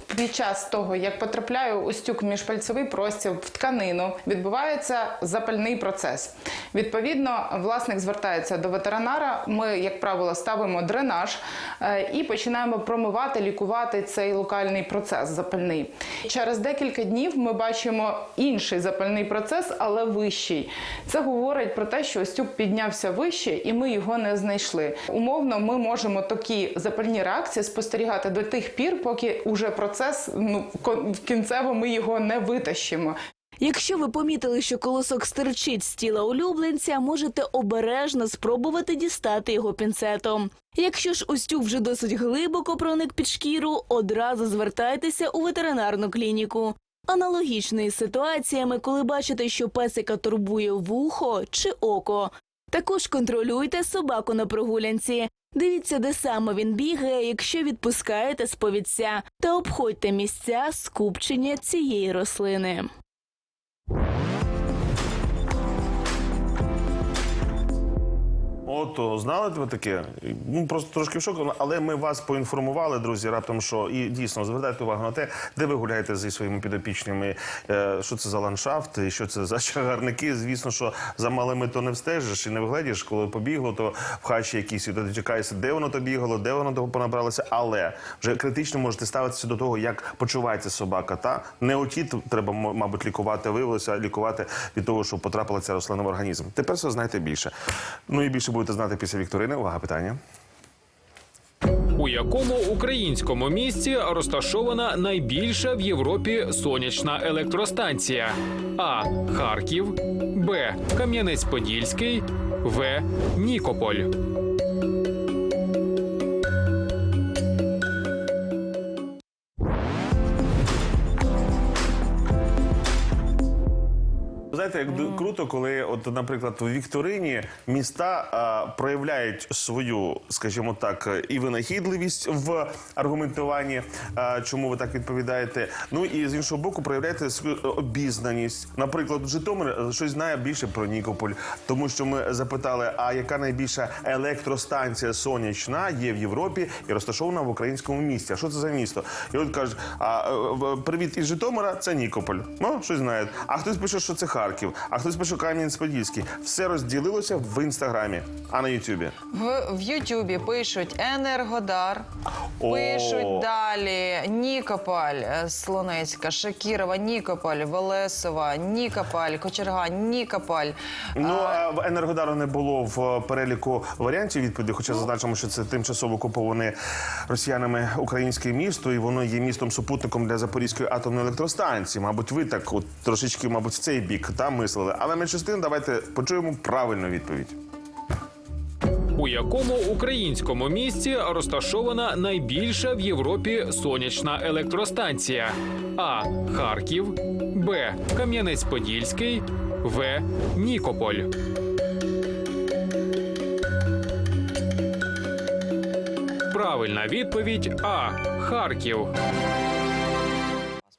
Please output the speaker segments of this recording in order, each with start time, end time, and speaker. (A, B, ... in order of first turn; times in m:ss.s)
0:00.1-0:33.2 A
0:33.6-1:02.9 B
1:08.6-1:37.5 C
1:38.1-1:40.2 C
1:42.0-1:54.1 D
2:04.5-2:39.1 C
2:39.3-2:42.0 E
2:42.6-2:43.5 C
2:42.7-2:51.6 E
2:51.2-3:07.6 C
3:09.2-3:21.3 D
3:26.5-3:29.1 D